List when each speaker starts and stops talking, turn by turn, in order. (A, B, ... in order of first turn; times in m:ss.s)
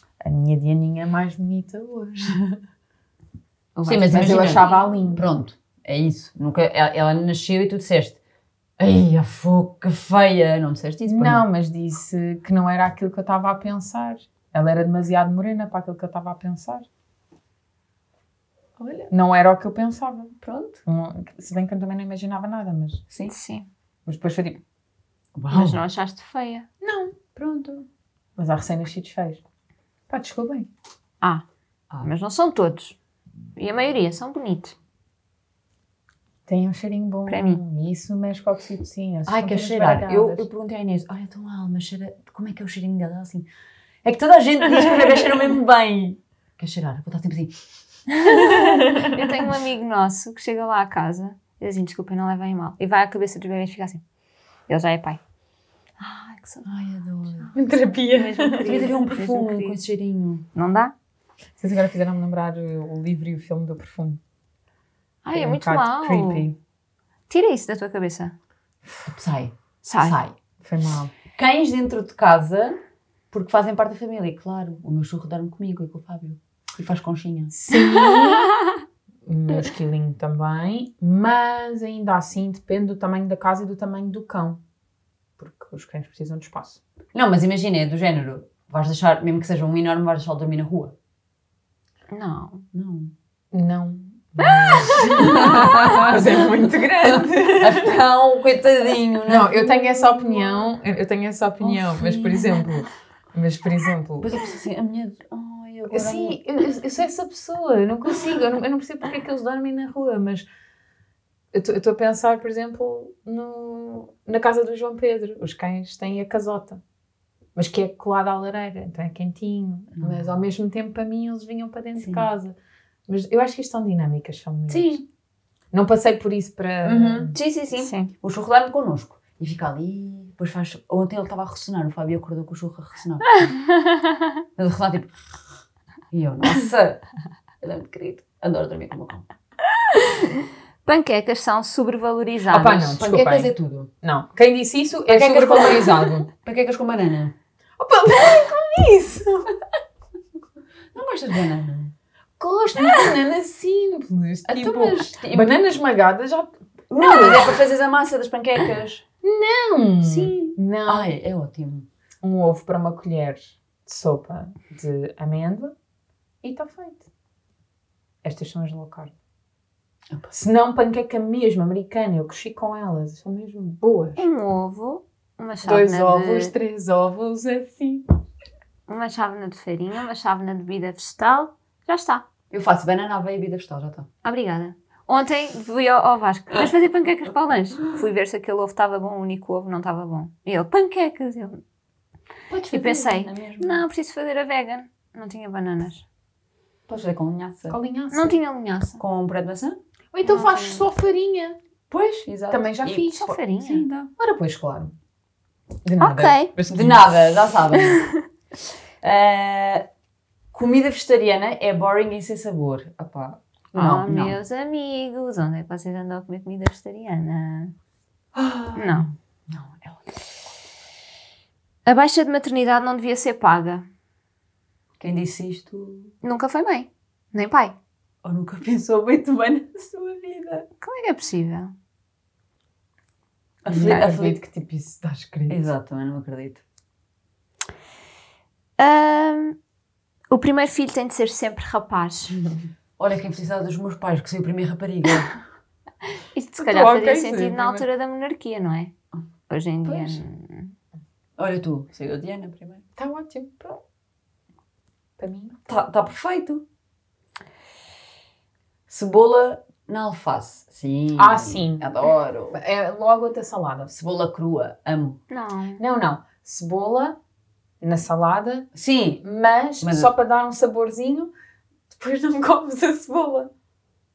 0:00.2-0:02.6 A
0:03.8-0:05.0 B
0:03.9-0:08.2 C
0:04.1-0:05.3 A
0:08.8-0:11.5 C
0:11.1-0:16.9 A
0:18.8-0:19.1 C
0:19.1-0:23.0 A
0:20.4-0:20.8 C
0:23.3-0:23.7 B
0:24.1-0:24.6 A
0:25.4-0:25.8 C
0:25.5-0:26.7 B
0:26.8-0:27.8 A
0:28.4-0:29.4 A
0:30.1-0:30.7 A
0:32.0-0:33.0 B
0:33.6-0:34.8 B
0:36.5-0:40.4 A
0:37.3-0:37.6 B
0:39.3-0:43.5 C
0:44.0-0:47.6 C
0:48.1-0:54.0 B
0:48.3-0:48.8 C
0:54.7-0:55.2 B
0:56.0-0:56.7 B
0:56.6-0:57.5 C
0:57.5-0:58.9 A
0:58.1-0:59.8 B
0:58.6-1:00.5 C
1:00.5-1:00.9 B
1:01.6-1:04.2 A
1:05.2-1:06.5 B
1:05.3-1:06.6 A
1:07.3-1:08.3 B
1:09.1-1:10.4 C
1:09.8-1:10.2 B
1:10.6-1:11.1 A
1:11.4-1:12.8 C
1:13.3-1:17.5 C
1:17.5-1:18.6 A
1:17.9-1:18.7 B
1:19.3-1:24.6 A
1:25.4-1:26.8 A
1:27.1-1:31.0 C
1:32.1-1:32.6 B
1:32.7-1:33.1 C
1:33.5-1:38.0 A
1:34.6-1:35.9 B
1:35.1-1:40.7 C
1:39.3-1:44.4 A
1:41.6-1:42.7 C
1:44.2-1:46.4 C
1:45.9-1:50.5 A
1:51.5-1:56.8 A
1:57.6-2:02.6 A
2:00.0-2:00.4 C
2:02.0-2:02.3 C
2:03.1-2:05.0 A
2:04.7-2:05.0 B
2:05.7-2:07.4 A
2:06.8-2:13.5 C
2:07.4-2:08.1 B
2:13.4-2:14.2 B
2:14.6-2:15.2 C
2:16.1-2:17.0 C
2:17.6-2:19.3 C
2:19.9-2:23.0 B
2:22.5-2:26.3 A
2:23.0-2:23.9 C
2:25.1-2:27.3 C
2:27.8-2:29.5 A
2:30.9-2:31.9 C
2:32.4-2:37.6 A
2:34.5-2:35.6 C
2:36.9-2:39.0 C
2:39.2-2:41.1 A
2:40.0-2:41.9 C
2:42.2-2:45.7 A
2:46.4-2:47.1 A
2:48.2-2:49.1 A
2:50.3-2:54.2 A
2:54.2-2:56.5 B
2:55.6-2:58.0 A
2:58.9-3:02.2 B
3:02.5-3:04.1 C
3:04.2-3:11.6 B
3:12.5-3:13.8 C
3:12.7-3:16.0 B
3:16.9-3:17.8 C
3:17.7-3:18.4 A
3:18.1-3:19.0 B
3:19.0-3:19.8 C
3:20.1-3:21.6 A
3:20.3-3:20.8 B
3:21.9-3:24.1 C
3:22.5-3:23.4 A
3:23.0-3:23.9 B
3:24.2-3:24.9 A
3:25.8-3:27.0 A
3:26.0-3:26.6 B
3:26.6-3:28.1 C
3:27.8-3:28.1 B
3:29.0-3:29.9 C
3:30.5-3:34.4 C
3:33.7-3:37.7 B
3:38.3-3:40.2 C
3:38.8-3:39.1 B
3:41.9-3:43.9 B
3:45.0-3:46.1 C
3:46.2-3:47.8 B
3:48.2-3:50.7 C
3:50.8-3:51.7 B
3:53.6-3:54.4 C
3:53.7-3:55.7 A
3:53.7-3:54.0 B
3:55.5-3:56.6 C
3:58.8-3:59.6 B
4:00.3-4:02.4 B
4:03.0-4:05.3 C
4:06.3-4:08.9 B
4:06.6-4:07.9 A
4:09.5-4:10.7 B
4:09.8-4:10.2 C
4:11.4-4:12.8 C
4:13.0-4:13.8 A
4:15.2-4:15.8 A
4:15.7-4:16.6 C
4:18.9-4:22.6 C
4:21.2-4:21.9 A
4:22.5-4:23.9 A
4:23.9-4:25.2 C
4:25.3-4:25.8 B
4:25.8-4:27.2 A
4:27.8-4:28.7 A
4:28.8-4:29.2 C
4:29.2-4:31.3 A
4:29.8-4:30.1 C
4:31.9-4:33.5 A